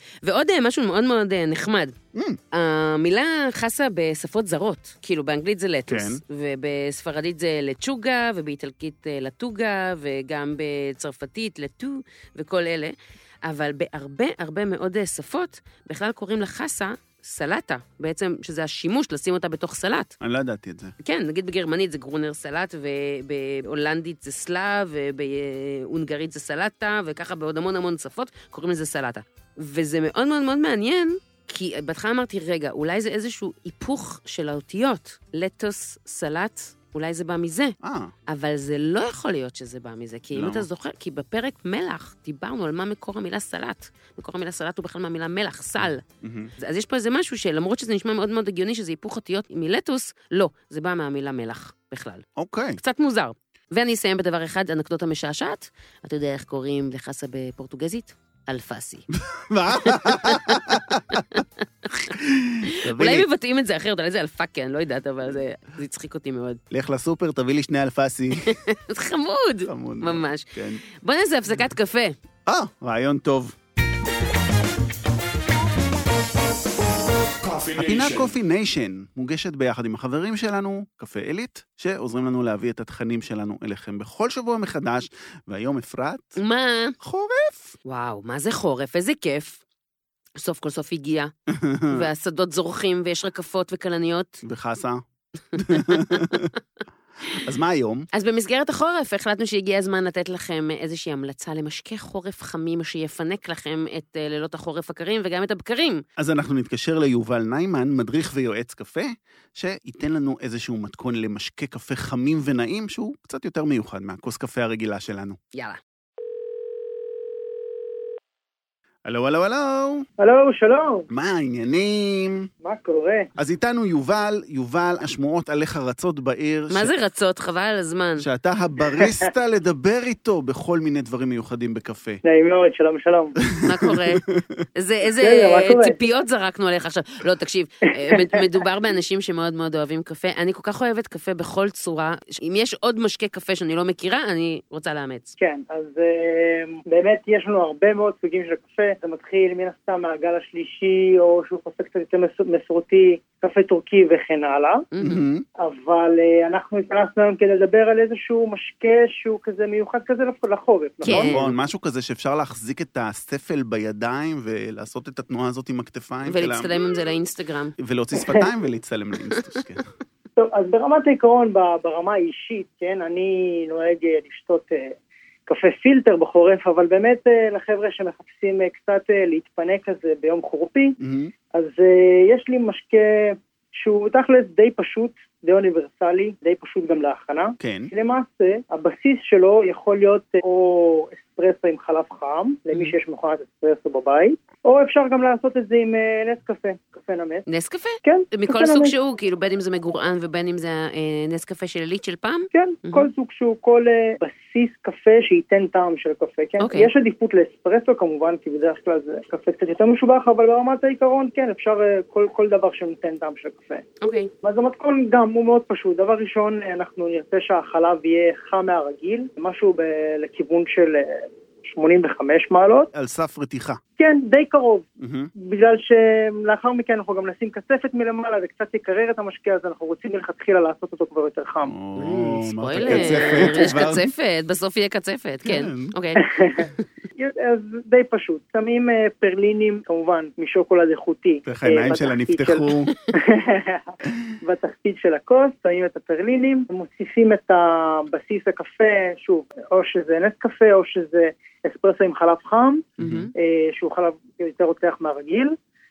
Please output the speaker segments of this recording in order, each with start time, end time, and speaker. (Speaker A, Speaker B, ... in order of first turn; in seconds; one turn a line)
Speaker A: 0.2-1.9
Speaker B: 2.1-2.4
Speaker A: 2.5-20.1
Speaker B: 5.9-6.2
Speaker B: 20.2-20.9
Speaker A: 21.0-37.8
Speaker B: 37.8-38.1
Speaker A: 38.3-46.0
Speaker B: 40.3-40.7
Speaker B: 45.8-46.5
Speaker A: 46.6-52.2
Speaker B: 52.4-52.8
Speaker A: 52.8-59.1
Speaker B: 59.1-61.4
Speaker A: 59.8-66.6
Speaker B: 62.1-63.3
Speaker B: 66.7-68.5
Speaker A: 68.4-72.2
Speaker B: 69.7-70.8
Speaker B: 72.5-73.6
Speaker B: 77.5-86.4
Speaker A: 86.4-87.0
Speaker B: 87.0-87.8
Speaker A: 87.8-89.6
Speaker A: 90.4-91.3
Speaker B: 91.5-92.1
Speaker A: 91.9-94.4
Speaker B: 94.4-95.0
Speaker B: 95.5-96.5
Speaker A: 95.6-96.5
Speaker B: 97.3-98.1
Speaker A: 98.1-106.0
Speaker B: 106.2-115.4
Speaker A: 115.5-115.8
Speaker B: 119.1-120.1
Speaker C: 120.2-121.1
Speaker B: 121.1-122.5
Speaker C: 122.6-123.3
Speaker B: 123.4-126.9
Speaker A: 126.7-128.3
Speaker B: 128.2-132.2
Speaker C: 129.0-129.2
Speaker C: 132.2-133.4
Speaker B: 133.5-134.6
Speaker A: 133.7-134.2
Speaker A: 134.8-145.3
Speaker C: 135.2-136.0
Speaker C: 138.0-138.4
Speaker C: 145.4-154.8
Speaker A: 154.9-155.2
Speaker B: 155.0-155.4
Speaker C: 155.6-161.4
Speaker A: 161.0-161.6
Speaker B: 161.1-166.9
Speaker A: 166.2-167.7
Speaker B: 167.8-169.9
Speaker C: 168.2-168.5
Speaker C: 170.4-175.0
Speaker C: 175.5-181.0
Speaker B: 181.0-181.3
Speaker C: 181.5-197.5
Speaker B: 187.6-187.9
Speaker A: 197.5-203.1
Speaker C: 198.0-198.9
Speaker C: 202.5-213.9
Speaker A: 206.6-206.9
Speaker A: 214.0-214.3
Speaker C: 214.4-222.9
Speaker B: 222.9-223.8
Speaker C: 224.0-231.8
Speaker B: 225.0-225.3
Speaker B: 231.7-234.1
Speaker A: 232.0-236.8
Speaker C: 232.8-233.8
Speaker B: 235.4-235.9
Speaker C: 236.2-255.6
Speaker B: 241.5-242.9
Speaker B: 253.0-253.3
Speaker A: 253.0-253.3